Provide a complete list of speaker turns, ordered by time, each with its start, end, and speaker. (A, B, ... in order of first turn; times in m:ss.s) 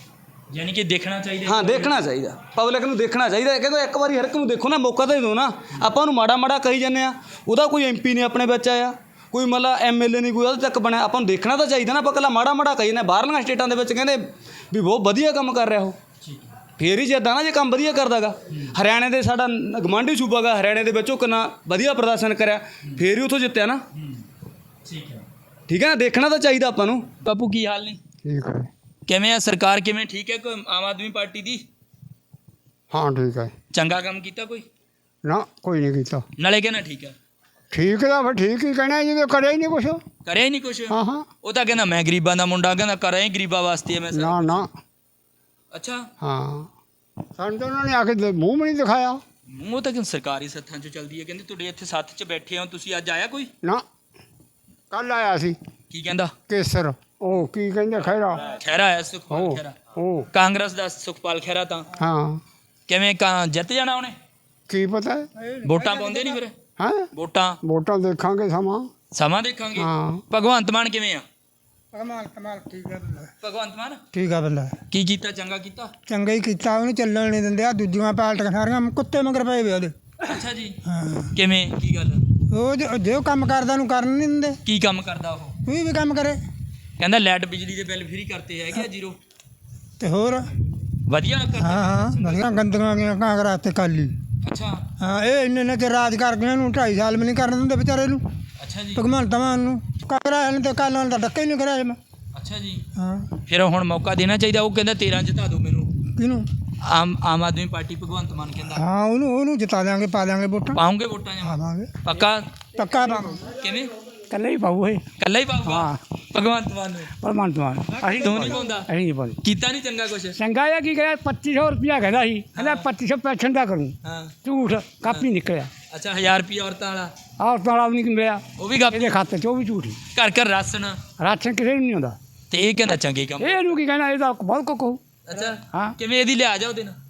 0:00.5-0:01.9 A
0:01.4-0:16.0 B
0:16.2-0:16.5 A
0:16.8-0:23.8 B
0:23.9-0:24.2 A
0:24.8-0:25.2 A
0:25.7-0:27.0 B
0:27.2-0:28.0 A
0:28.2-0:28.7 C
0:29.1-0:31.6 A
0:32.9-0:33.5 C
0:33.7-0:34.6 A
0:35.2-0:36.2 C
0:36.4-0:37.1 A
0:37.7-0:40.0 C
0:40.2-0:44.6 A
0:40.9-0:41.3 C
0:44.1-0:44.7 C
0:45.7-0:46.1 A
0:46.2-0:46.7 C
0:47.4-0:49.2 C
0:49.5-0:53.5 A
0:54.9-0:55.6 C
0:55.9-0:56.3 A
0:56.5-0:58.4 C
0:58.4-0:59.8 A
0:59.3-1:00.3 C
1:00.3-1:01.9 A
1:02.0-1:02.4 C
1:02.9-1:04.2 A
1:04.7-1:05.3 C
1:05.4-1:06.4 D
1:05.6-1:06.5 A
1:06.8-1:07.1 C
1:07.1-1:07.6 A
1:07.6-1:08.9 C
1:09.1-1:11.2 A
1:09.7-1:10.2 C
1:11.9-1:13.3 D
1:13.4-1:14.0 A
1:14.1-1:14.7 D
1:14.9-1:15.9 A
1:16.1-1:19.9 D
1:20.2-1:20.8 A
1:20.9-1:21.3 D
1:21.3-1:22.2 A
1:22.5-1:24.6 D
1:24.6-1:25.5 A
1:25.6-1:26.4 D
1:27.0-1:29.2 A
1:30.0-1:30.4 D
1:31.1-1:32.4 A
1:31.6-1:34.1 D
1:34.4-1:34.8 A
1:35.0-1:38.2 D
1:38.6-1:39.0 A
1:38.9-1:42.0 D
1:42.3-1:42.8 A
1:43.0-1:43.3 D
1:43.4-1:45.9 A
1:46.2-1:46.5 D
1:46.8-1:48.8 A
1:48.8-1:50.8 D
1:50.7-1:52.5 A
1:51.4-1:51.9 D
1:52.7-1:53.4 D
1:53.6-1:53.9 A
1:54.3-1:55.0 E
1:55.2-1:57.1 A
1:55.6-1:56.0 E
1:57.2-1:59.4 E
1:58.1-1:58.9 A
1:59.4-2:00.4 A
2:00.4-2:05.7 E
2:02.6-2:02.8 A
2:04.0-2:04.3 A
2:05.9-2:07.1 A
2:07.4-2:10.0 E
2:08.6-2:09.2 A
2:10.1-2:11.0 A
2:11.2-2:12.2 E
2:12.5-2:13.7 A
2:13.4-2:15.0 E
2:15.3-2:17.0 A